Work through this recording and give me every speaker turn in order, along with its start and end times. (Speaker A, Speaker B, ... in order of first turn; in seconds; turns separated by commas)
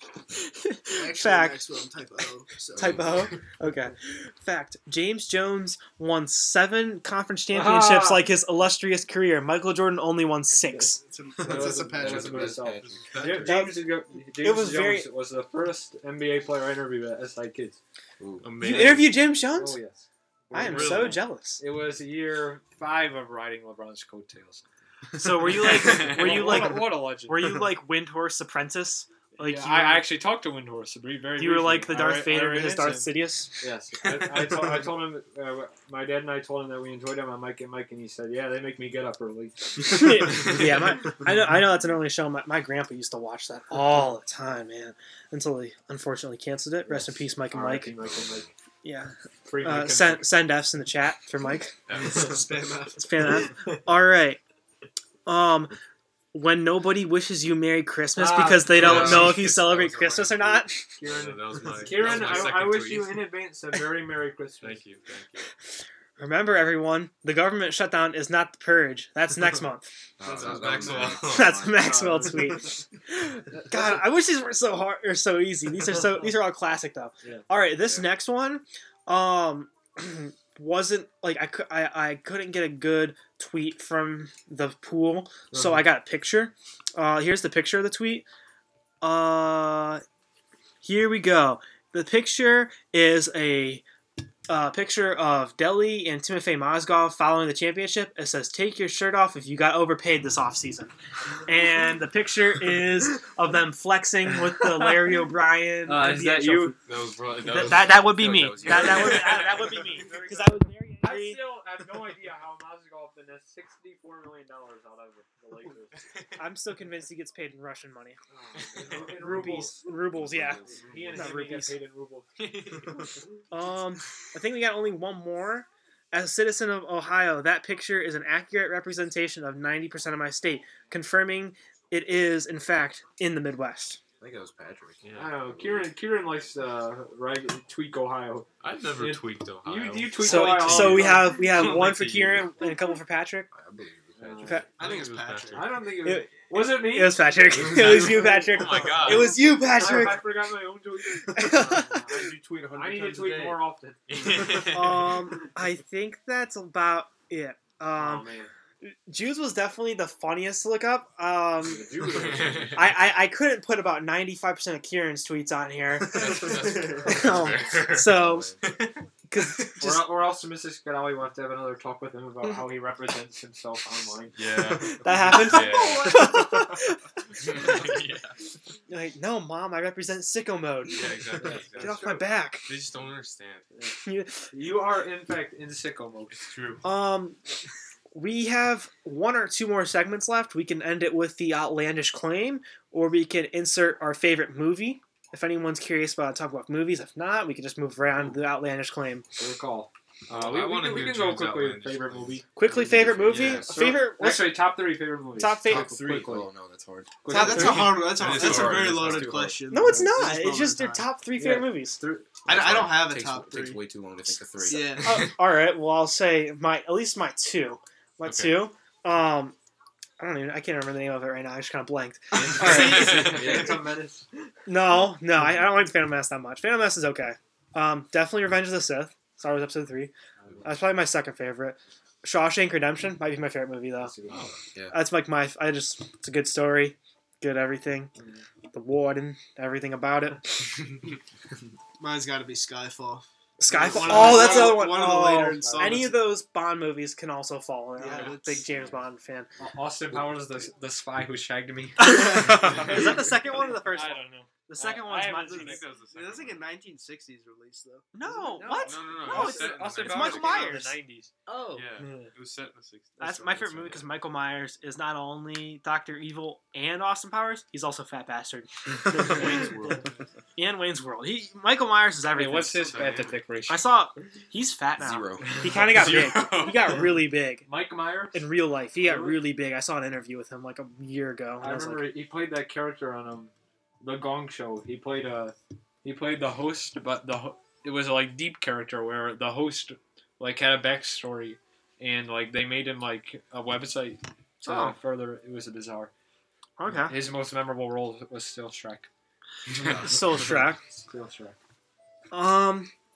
Speaker A: 0.3-1.6, Speaker B: 0.9-3.2, Speaker C: 2.7-3.4, Speaker A: 2.8-11.0, Speaker D: 7.5-8.3, Speaker D: 10.7-17.8, Speaker B: 11.0-12.6, Speaker C: 11.7-13.0, Speaker E: 12.6-13.7, Speaker A: 13.4-15.1, Speaker C: 18.2-18.4, Speaker E: 18.4-19.2, Speaker A: 18.6-19.8, Speaker D: 19.4-24.6, Speaker A: 20.5-21.6, Speaker E: 20.6-21.2, Speaker A: 25.1-30.1, Speaker D: 25.5-27.5, Speaker E: 25.6-26.6, Speaker D: 29.4-40.1, Speaker A: 31.4-33.6, Speaker A: 39.8-47.9, Speaker D: 46.9-48.5, Speaker C: 48.0-48.5, Speaker A: 48.8-51.7, Speaker D: 49.5-50.3, Speaker E: 51.9-52.4, Speaker B: 52.0-53.2, Speaker A: 53.0-54.4, Speaker A: 55.3-55.7, Speaker A: 56.3-60.9, Speaker D: 58.2-59.5, Speaker C: 58.7-60.6, Speaker E: 58.9-59.2, Speaker D: 61.0-64.8, Speaker E: 61.0-63.2, Speaker E: 64.6-65.5, Speaker A: 66.2-69.9, Speaker C: 70.2-71.8, Speaker E: 70.2-71.7, Speaker B: 70.5-70.9, Speaker A: 71.1-88.3, Speaker D: 71.8-72.6, Speaker D: 73.6-74.0, Speaker A: 89.0-90.0, Speaker A: 90.8-93.8, Speaker A: 94.5-100.9, Speaker A: 101.5-106.8, Speaker D: 104.6-105.2, Speaker D: 105.9-106.8, Speaker E: 106.9-109.6, Speaker A: 107.5-111.4, Speaker C: 107.7-109.6, Speaker D: 108.9-116.0, Speaker E: 115.9-116.3, Speaker A: 116.4-118.2, Speaker D: 118.3-119.8, Speaker E: 118.6-119.5, Speaker C: 118.9-121.3, Speaker A: 119.2-121.8, Speaker D: 120.7-123.1, Speaker A: 123.5-134.0, Speaker C: 134.2-135.9, Speaker E: 135.0-135.3, Speaker D: 135.2-141.7, Speaker E: 138.6-142.8, Speaker A: 140.2-143.5, Speaker C: 143.5-144.6, Speaker D: 144.2-144.6, Speaker A: 144.4-144.7, Speaker B: 144.7-145.8, Speaker E: 144.8-145.6, Speaker D: 145.5-148.8, Speaker A: 146.0-150.3, Speaker E: 147.6-149.4, Speaker B: 149.1-150.1, Speaker D: 149.7-155.1, Speaker A: 151.2-152.0, Speaker C: 152.0-153.6, Speaker E: 154.1-155.2, Speaker A: 154.6-158.3, Speaker D: 157.9-158.5, Speaker A: 158.8-161.9, Speaker D: 161.6-162.8, Speaker E: 162.1-162.8, Speaker A: 162.7-168.5, Speaker E: 166.0-169.0, Speaker C: 167.2-168.6, Speaker A: 169.3-170.1, Speaker D: 169.8-174.4, Speaker E: 174.4-176.3, Speaker A: 175.0-177.8, Speaker D: 175.2-176.7, Speaker E: 177.4-178.4, Speaker A: 178.9-182.7, Speaker E: 180.9-183.7, Speaker D: 181.4-182.2, Speaker A: 184.0-184.5, Speaker D: 184.5-186.4, Speaker E: 186.3-186.8, Speaker A: 186.8-187.4, Speaker A: 188.1-199.3, Speaker D: 199.4-206.5, Speaker E: 200.3-202.4, Speaker A: 202.6-204.6, Speaker C: 202.7-203.9, Speaker E: 203.3-203.7, Speaker A: 205.4-205.9, Speaker C: 205.6-209.6, Speaker D: 207.2-208.2, Speaker B: 207.3-211.0, Speaker A: 207.3-207.9, Speaker E: 208.1-209.3, Speaker A: 209.7-212.0, Speaker D: 209.7-212.4, Speaker B: 212.5-213.8, Speaker C: 212.5-215.0, Speaker B: 214.7-215.3, Speaker A: 215.0-219.6, Speaker E: 218.2-218.6, Speaker A: 220.2-223.6, Speaker E: 222.4-223.7, Speaker D: 222.4-224.3, Speaker C: 223.2-223.8, Speaker A: 224.7-230.1, Speaker D: 230.4-230.7, Speaker A: 230.6-234.1, Speaker D: 234.0-234.5, Speaker E: 234.3-234.6, Speaker C: 234.7-235.0, Speaker A: 234.9-238.1, Speaker D: 238.2-238.4, Speaker A: 238.7-240.6, Speaker B: 242.0-246.2, Speaker A: 243.6-249.5, Speaker D: 243.7-246.1, Speaker B: 248.0-248.9, Speaker D: 249.6-255.8, Speaker A: 252.0-255.8, Speaker B: 252.4-252.8, Speaker E: 255.5-256.6, Speaker B: 256.1-258.6, Speaker A: 258.1-261.0, Speaker D: 258.4-261.3, Speaker E: 258.8-260.8, Speaker B: 261.5-261.9, Speaker E: 261.7-264.1, Speaker D: 262.0-262.3, Speaker A: 263.2-269.7, Speaker E: 269.1-270.1, Speaker A: 270.6-273.1, Speaker D: 272.3-273.9, Speaker E: 272.7-273.4, Speaker A: 273.7-277.7, Speaker C: 275.0-275.6, Speaker E: 275.7-277.1, Speaker D: 277.7-278.5, Speaker A: 278.3-282.1, Speaker D: 279.0-279.4, Speaker D: 281.6-296.1, Speaker A: 294.6-294.9, Speaker A: 296.8-297.1, Speaker D: 297.1-299.1, Speaker D: 299.9-301.6, Speaker A: 300.0-300.8, Speaker A: 302.3-302.9